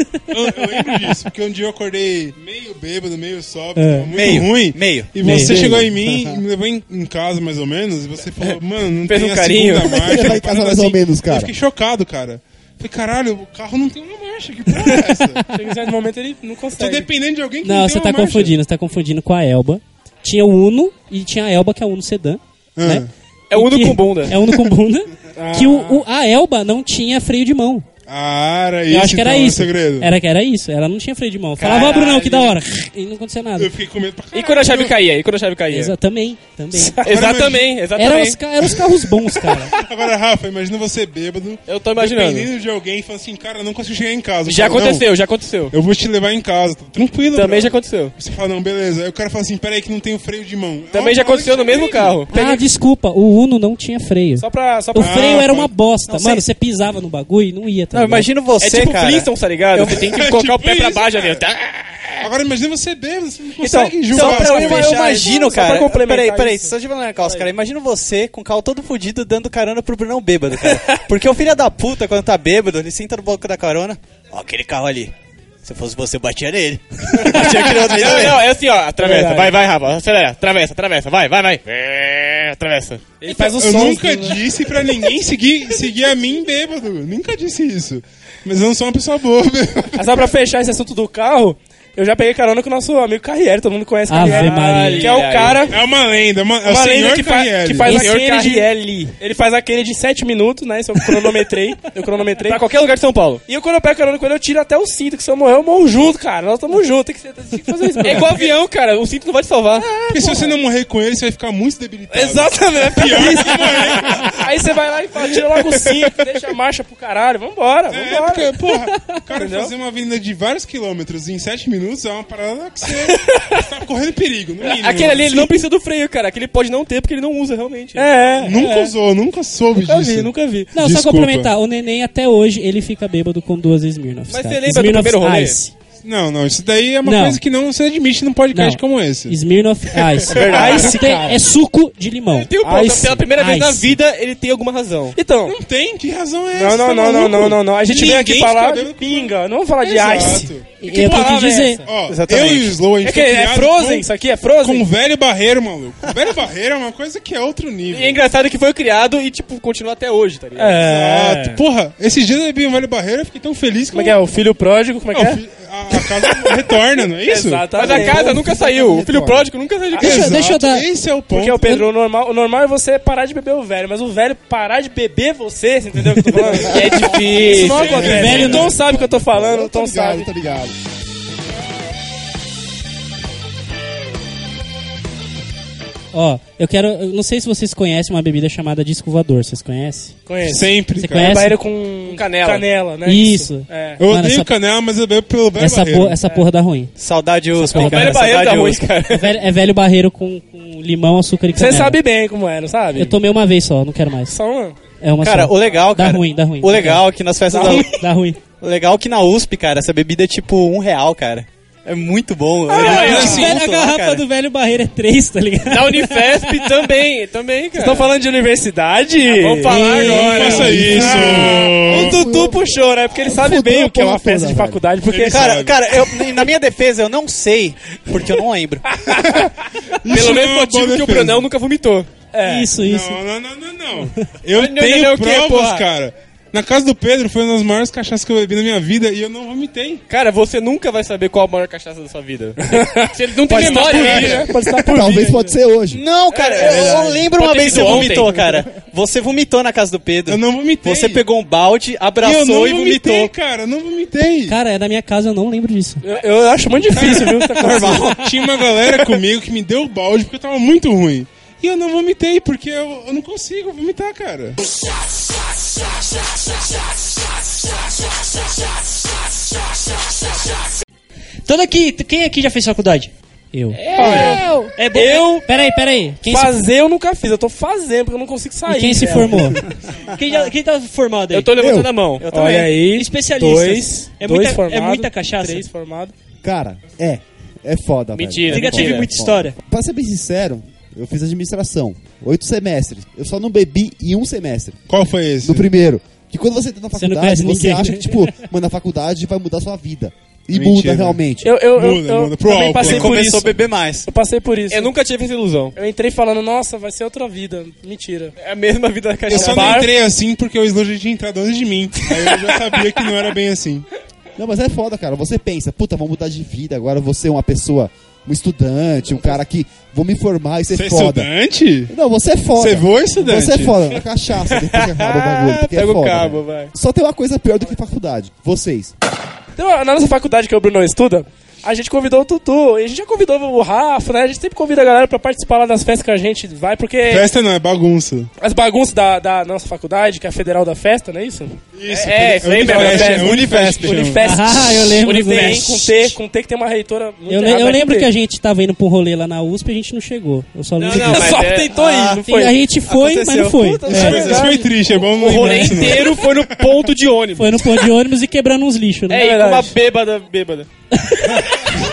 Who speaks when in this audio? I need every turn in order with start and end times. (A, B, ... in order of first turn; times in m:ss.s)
0:00.3-0:15.5 A
0:03.8-0:04.1 B
0:04.1-0:05.6 C
0:05.2-0:05.6 B
0:05.6-0:06.4 D
0:09.1-0:10.1 E
0:09.8-0:11.5 D
0:15.5-0:17.1 F
0:16.8-0:18.6 A
0:17.6-0:27.9 B
0:22.8-0:23.1 A
0:23.5-0:24.4 E
0:25.4-0:26.0 F
0:28.1-0:30.1 A
0:28.9-0:33.7 B
0:31.6-0:32.4 E
0:31.8-0:32.2 F
0:33.6-0:35.0 A
0:34.3-0:35.9 E
0:35.7-0:37.0 B
0:37.0-0:38.4 E
0:37.1-0:37.9 A
0:38.0-0:39.7 B
0:39.4-0:45.1 A
0:41.7-0:42.5 E
0:44.4-0:45.7 E
0:45.7-0:52.2 A
0:47.3-0:48.2 E
0:50.9-0:52.6 E
0:52.3-0:58.3 B
0:54.4-0:55.5 F
0:55.0-0:55.7 A
0:57.9-0:59.3 C
0:58.6-1:02.3 E
0:59.8-1:01.5 A
1:02.2-1:05.0 A
1:03.6-1:05.2 E
1:04.1-1:15.1 C
1:04.1-1:06.7 F
1:15.6-1:18.5 C
1:17.2-1:23.2 E
1:17.4-1:17.8 F
1:19.0-1:19.6 F
1:23.2-1:24.4 F
1:23.3-1:30.1 A
1:30.0-1:35.8 F
1:34.1-1:35.2 B
1:34.2-1:35.8 E
1:35.7-1:38.0 A
1:36.6-1:42.7 F
1:37.9-1:38.7 E
1:42.4-1:43.4 E
1:43.5-1:48.5 F
1:48.0-1:50.0 E
1:49.8-1:50.6 F
1:50.1-1:54.4 A
1:52.1-1:58.6 F
1:55.8-1:56.2 E
1:57.9-2:05.6 A
1:59.4-1:59.7 F
2:04.6-2:08.2 E
2:08.0-2:08.9 F
2:08.4-2:11.5 A
2:09.8-2:10.7 F
2:10.7-2:15.7 B
2:14.3-2:15.6 E
2:16.0-2:19.4 A
2:17.0-2:17.4 B
2:18.5-2:24.0 B
2:20.3-2:21.0 E
2:20.4-2:21.4 F
2:22.3-2:25.2 E
2:22.7-2:23.2 F
2:25.2-2:25.6 F
2:25.4-2:30.7 A
2:26.6-2:31.9 F
2:30.8-2:31.8 B
2:31.8-2:34.1 A
2:32.1-2:32.8 E
2:33.0-2:34.9 F
2:34.6-2:38.3 A
2:37.9-2:40.8 E
2:40.6-2:41.6 F
2:40.8-2:44.2 A
2:43.9-2:45.4 F
2:45.1-2:47.9 A
2:47.3-2:48.4 F
2:47.7-2:50.3 E
2:48.1-2:49.5 D
2:49.9-2:50.2 F
2:50.0-2:50.8 B
2:50.0-2:51.8 A
2:51.3-3:00.3 F
2:56.6-2:58.0 E
2:57.5-2:58.8 A
2:58.0-2:58.8 B
2:58.1-3:00.8 D
3:06.1-3:10.2 B
3:10.3-3:14.0 F
3:10.4-3:11.3 A
3:11.0-3:11.6 B
3:12.0-3:12.7 E
3:13.0-3:14.5 B
3:14.0-3:16.2 A
3:15.6-3:16.9 B
3:17.0-3:18.9 C
3:17.6-3:18.3 B
3:17.7-3:19.4 E
3:19.1-3:22.0 B
3:21.6-3:23.2 F
3:23.0-3:24.4 B
3:24.3-3:24.8 F
3:25.0-3:27.1 B
3:25.2-3:27.9 C
3:27.5-3:27.9 F
3:27.7-3:28.4 B
3:28.6-3:34.2 C
3:32.7-3:33.5 F
3:32.8-3:33.6 A
3:32.8-3:36.8 B
3:35.7-3:38.1 E
3:37.8-3:45.5 F
3:39.2-3:42.6 E
3:39.7-3:40.5 B
3:40.0-3:42.2 A
3:40.8-3:44.8 D
3:45.1-3:45.8 A
3:45.3-3:48.9 C
3:49.1-3:49.4 F
3:49.2-3:49.5 A
3:50.0-3:51.5 A
3:50.1-3:52.1 E
3:52.3-3:52.7 F
3:52.4-3:53.2 B
3:52.8-4:00.0 A
3:54.5-3:55.8 E
4:00.1-4:04.5 E
4:02.7-4:05.6 F
4:03.4-4:04.5 A
4:04.8-4:06.0 D
4:05.9-4:13.3 C
4:06.3-4:08.4 E
4:06.6-4:08.3 A
4:10.3-4:11.2 A
4:12.2-4:14.6 A
4:14.5-4:16.0 B
4:16.0-4:18.1 F
4:16.9-4:24.6 A
4:17.6-4:18.2 C
4:31.5-4:33.1 G
4:33.5-4:34.4 B
4:33.8-4:34.4 E
4:34.0-4:35.3 G
4:34.0-4:35.5 F
4:35.5-4:36.6 B
4:36.2-4:39.6 F
4:38.7-4:39.6 B
4:40.1-4:41.6 G
4:41.3-4:42.3 E
4:41.6-4:41.9 D
4:42.2-4:42.7 C
4:42.3-4:46.1 F
4:42.8-4:45.7 G
4:46.4-4:54.8 D
4:48.2-4:49.1 E
4:48.5-4:49.6 G
4:54.9-4:55.7 A
4:55.4-5:01.5 D
4:57.0-4:58.3 B
5:00.5-5:03.3 A
5:01.4-5:04.9 F
5:02.8-5:04.1 C
5:04.7-5:05.8 E
5:05.8-5:08.4 F
5:08.4-5:09.9 E
5:09.3-5:13.9 A
5:09.3-5:09.9 F
5:14.4-5:21.3 D
5:20.7-5:21.9 A
5:21.9-5:28.9 D
5:22.6-5:23.9 A
5:24.6-5:26.7 E
5:29.6-5:37.3 F
5:37.0-5:38.3 A
5:38.4-5:41.6 F
5:41.8-5:44.3 A
5:41.9-5:43.5 E
5:42.4-5:48.1 F
5:44.2-5:45.9 B
5:45.0-5:45.8 E
5:47.3-5:51.5 B
5:50.8-5:52.6 E
5:50.9-5:51.7 F
5:51.7-5:52.2 C
5:52.2-5:54.4 B
5:52.9-5:53.6 C
5:53.2-5:54.4 E
5:53.8-5:54.8 F
5:53.9-5:56.9 A
5:55.0-5:57.7 E
5:55.3-5:56.0 B
5:57.4-5:59.3 B
5:59.1-6:00.7 E
5:59.2-5:59.8 F
6:01.0-6:01.5 B